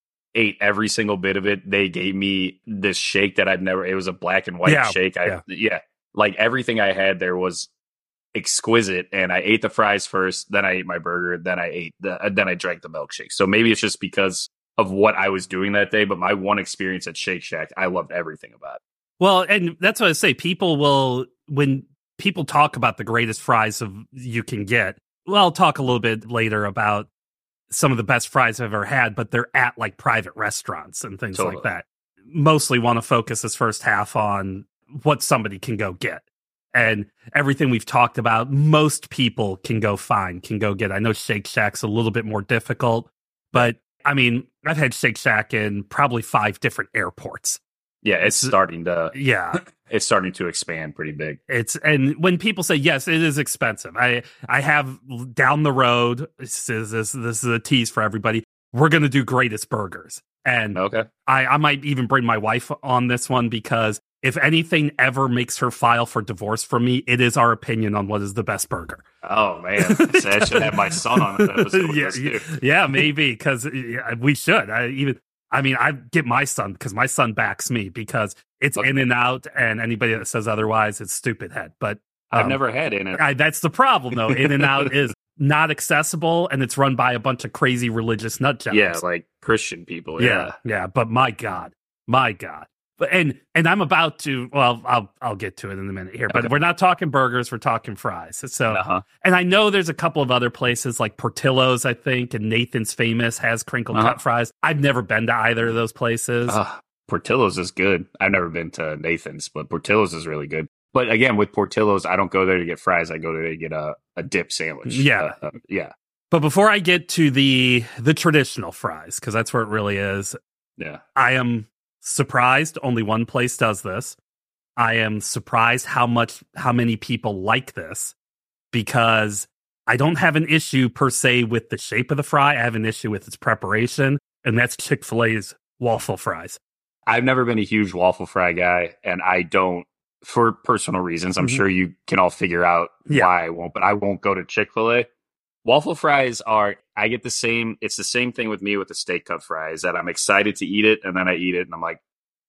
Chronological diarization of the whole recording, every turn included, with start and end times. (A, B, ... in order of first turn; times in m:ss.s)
0:00.3-0:07.7 A
0:04.6-0:05.4 B
0:08.3-0:18.8 A
0:19.2-0:27.1 B
0:27.7-0:47.6 B
0:31.3-0:31.7 A
0:48.0-0:49.1 A
0:48.2-0:48.5 B
0:49.1-0:49.6 B
0:49.6-0:51.4 A
0:51.5-1:09.0 B
1:00.7-1:01.1 A
1:09.2-1:12.5 A
1:09.8-1:22.6 B
1:18.8-1:19.0 A
1:22.3-1:23.2 A
1:23.1-1:29.0 B
1:24.3-1:24.9 A
1:28.7-1:30.5 A
1:30.2-1:46.6 B
1:38.7-1:39.0 A
1:43.9-1:44.2 A
1:46.5-1:55.9 A
1:54.9-1:55.3 B
1:56.3-2:00.4 B
2:01.1-2:04.2 B
2:04.8-2:08.1 B
2:08.7-2:16.6 B
2:17.1-2:25.1 A
2:25.6-2:32.0 A